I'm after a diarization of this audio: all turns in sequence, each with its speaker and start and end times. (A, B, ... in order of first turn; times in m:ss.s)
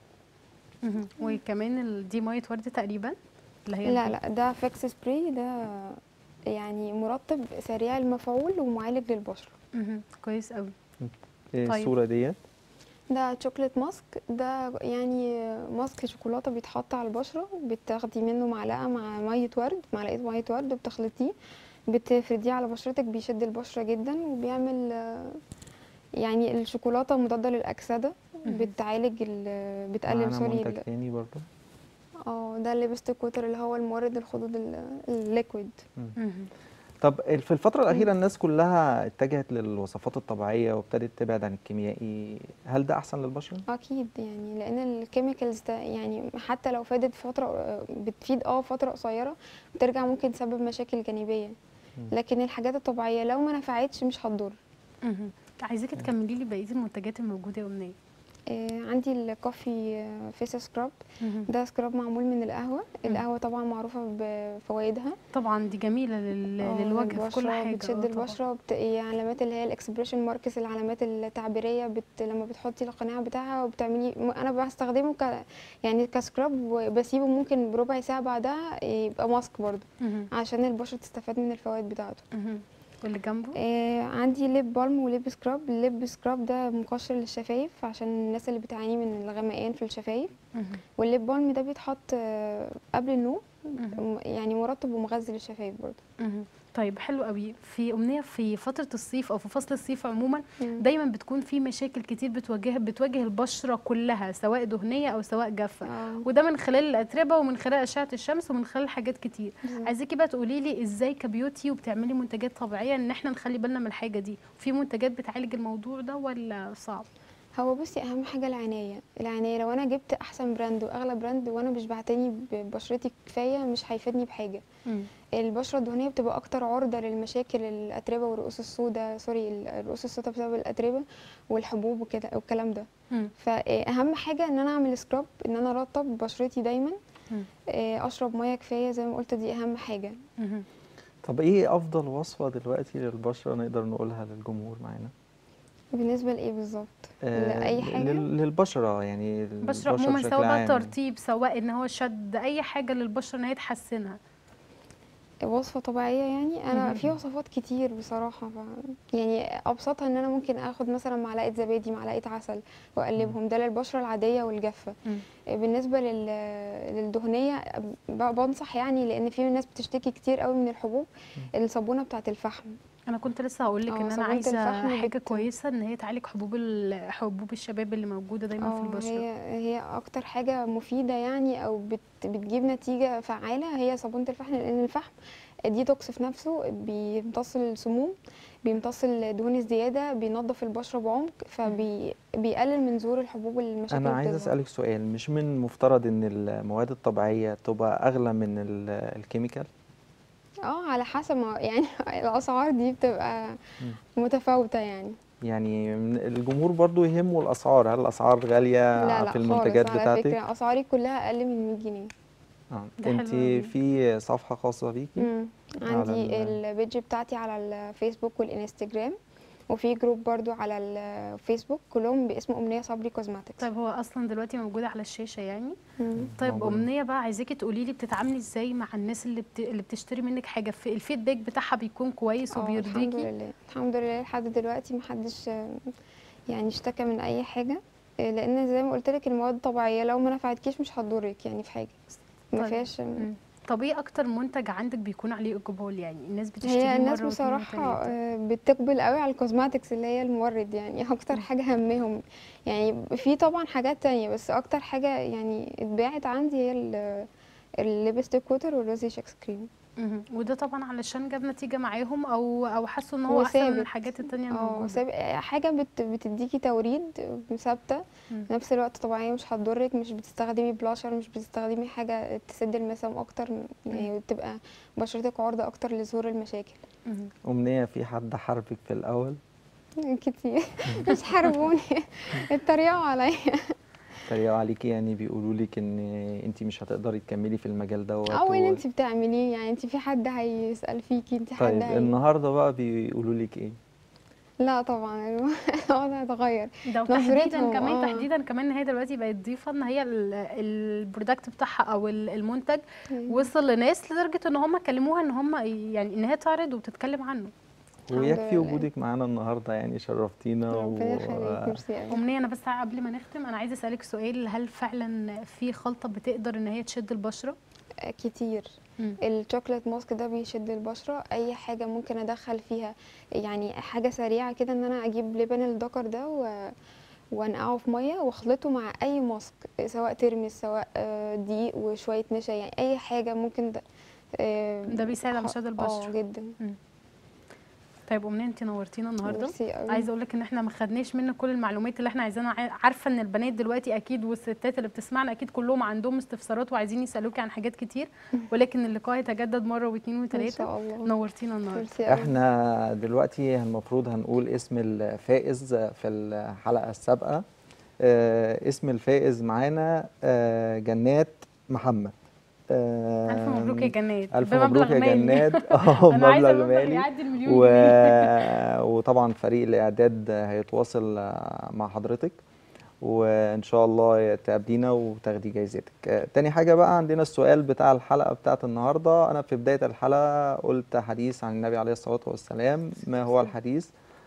0:00.8-0:03.2 A
0:03.7-0:04.2 A
0:03.8-0:06.0 B
0:06.5-0:09.5 B
0:09.8-0:10.7 A
0:11.0-0:12.4 C
0:11.7-0:11.9 A
0:13.1-0:21.3 B
0:21.9-0:25.4 B
0:26.2-0:30.8 B
0:28.5-0:28.7 A
0:30.1-0:31.4 C
0:32.3-0:35.8 B
0:36.2-0:36.5 A
0:37.0-0:43.6 C
0:43.7-0:51.6 B
0:52.1-0:54.6 B
0:55.1-0:58.0 A
0:58.5-1:05.2 B
1:01.2-1:01.5 A
1:05.3-1:08.4 A
1:06.6-1:22.2 B
1:20.0-1:20.3 A
1:22.3-1:23.6 A
1:23.6-1:30.3 B
1:30.6-1:30.8 A
1:31.0-1:36.0 B
1:33.8-1:34.0 A
1:36.2-1:57.1 A
1:45.8-1:46.3 B
1:49.7-1:49.9 B
1:57.6-2:04.6 B
2:05.4-2:12.9 B
2:13.4-2:17.0 B
2:17.7-2:20.2 B
2:20.4-2:20.7 A
2:21.2-2:25.1 C
2:25.9-2:28.3 B
2:27.2-2:30.9 C
2:29.6-2:34.2 A
2:35.5-2:45.0 B
2:36.7-2:37.0 A
2:45.5-2:52.8 B
2:53.1-2:59.2 A
2:53.9-2:55.5 B
2:58.6-3:05.2 B
3:05.7-3:14.6 B
3:13.9-3:19.7 C
3:20.7-3:25.2 B
3:25.4-3:30.4 C
3:29.0-3:32.1 B
3:32.7-3:35.3 C
3:33.0-3:33.7 A
3:35.2-3:39.2 B
3:35.8-3:36.6 C
3:39.7-3:43.7 B
3:43.6-3:45.8 A
3:46.0-3:46.3 B
3:46.2-3:46.9 C
3:46.4-3:53.3 A
3:52.5-3:55.9 B
3:56.5-4:02.0 B
4:02.5-4:03.3 B
4:02.6-4:08.2 A
4:06.6-4:17.3 B
4:17.8-4:19.7 B
4:20.0-4:25.0 A
4:23.3-4:36.8 B
4:37.1-4:37.3 A
4:37.4-4:39.4 C
4:40.0-4:43.8 B
4:40.9-4:41.1 C
4:44.3-4:48.8 C
4:48.3-4:52.2 B
4:51.6-4:53.8 C
4:54.6-4:58.3 B
4:56.9-5:07.5 A
5:03.1-5:03.4 B
5:08.1-5:11.8 C
5:08.1-5:08.9 B
5:10.7-5:12.2 B
5:12.1-5:17.6 A
5:18.0-5:18.7 B
5:19.2-5:26.8 B
5:27.3-5:33.8 B
5:34.4-5:36.6 B
5:34.9-5:36.8 A
5:38.1-5:51.9 A
5:39.2-5:40.1 B
5:50.3-5:51.1 B
5:51.7-5:52.4 B
5:52.0-5:57.4 C
5:58.0-6:02.1 C
6:02.7-6:12.4 C
6:03.3-6:08.5 A
6:13.0-6:23.9 C